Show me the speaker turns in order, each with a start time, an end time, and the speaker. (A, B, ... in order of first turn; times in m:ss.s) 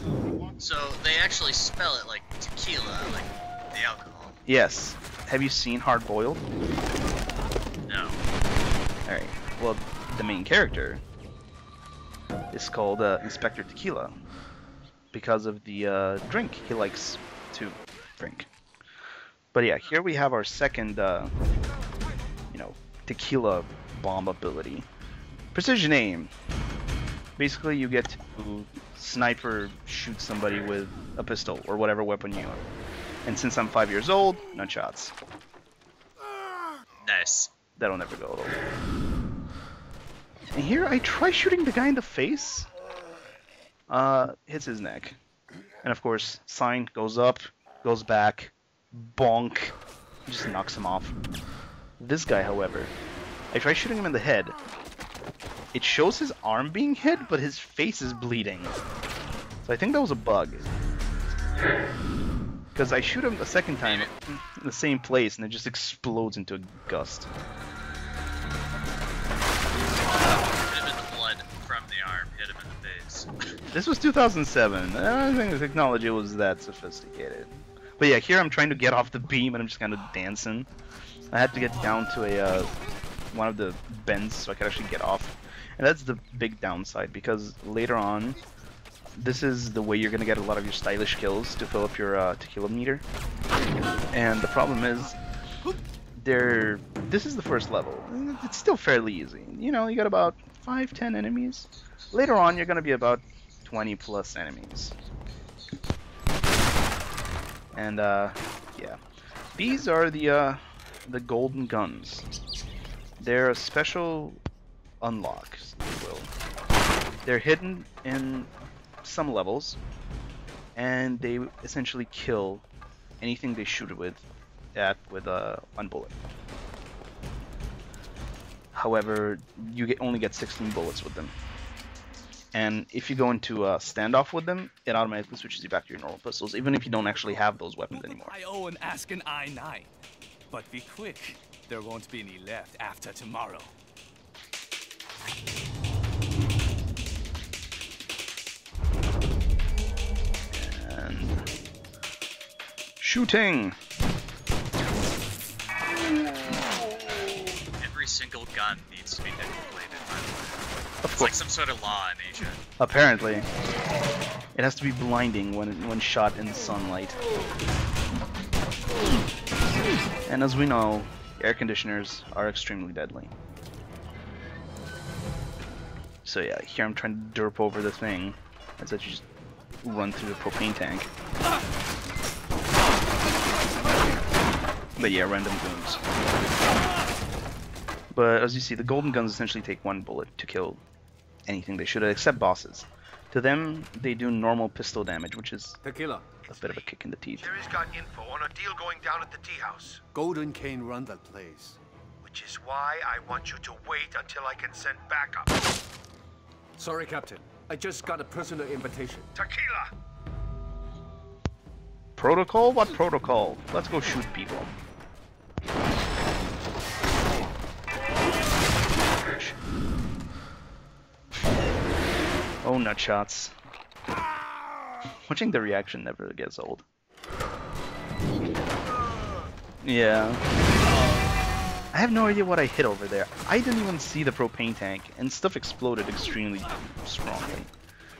0:00.6-0:04.4 A
0:04.4-0:06.4 B
0:07.8-0:08.2 A
0:09.1-0:11.0 B
0:12.5-0:14.1 B
0:15.1-0:18.5 B
0:19.5-0:21.3 B
0:22.5-0:24.9 B
0:25.5-0:26.3 B
0:27.4-0:32.6 B
0:33.2-0:35.1 B
0:37.0-0:37.5 A
0:37.8-0:38.6 B
0:40.5-0:42.7 B
0:43.9-0:45.2 B
0:45.8-0:49.8 B
0:50.3-0:51.2 B
0:52.0-0:52.9 B
0:53.5-0:54.6 B
0:55.7-0:58.8 B
0:59.6-1:00.7 B
1:02.8-1:07.3 B
1:03.8-1:04.1 A
1:10.3-1:13.3 A
1:13.7-1:20.7 B
1:21.3-1:22.7 B
1:23.3-1:28.4 B
1:29.2-1:33.0 B
1:34.1-1:35.2 B
1:36.2-1:45.0 B
1:47.7-1:49.0 B
1:49.6-1:52.3 B
1:53.2-1:54.4 B
1:55.0-1:56.3 B
1:57.2-1:58.5 B
1:59.0-1:59.8 B
2:00.8-2:02.6 B
2:03.2-2:06.2 B
2:08.7-2:11.3 B
2:12.5-2:18.4 B
2:17.0-2:19.9 C
2:20.5-2:23.8 C
2:30.5-2:31.4 B
2:33.0-2:33.8 B
2:37.8-2:40.6 A
2:41.0-2:41.4 B
2:41.2-2:42.6 A
2:42.8-2:43.5 B
2:44.5-2:47.2 B
2:50.3-2:53.3 B
2:56.2-2:59.3 B
2:59.8-3:01.1 B
3:05.0-3:06.0 B
3:08.1-3:10.8 B
3:11.5-3:15.8 B
3:15.8-3:16.3 D
3:16.4-3:20.0 E
3:16.5-3:17.5 B
3:20.1-3:21.8 D
3:22.2-3:25.6 E
3:26.8-3:29.3 D
3:29.4-3:29.9 E
3:32.2-3:34.7 B
3:39.1-3:39.6 B
3:42.6-3:43.5 B
3:45.2-3:46.8 B
3:49.8-3:50.4 B
3:51.9-3:57.7 B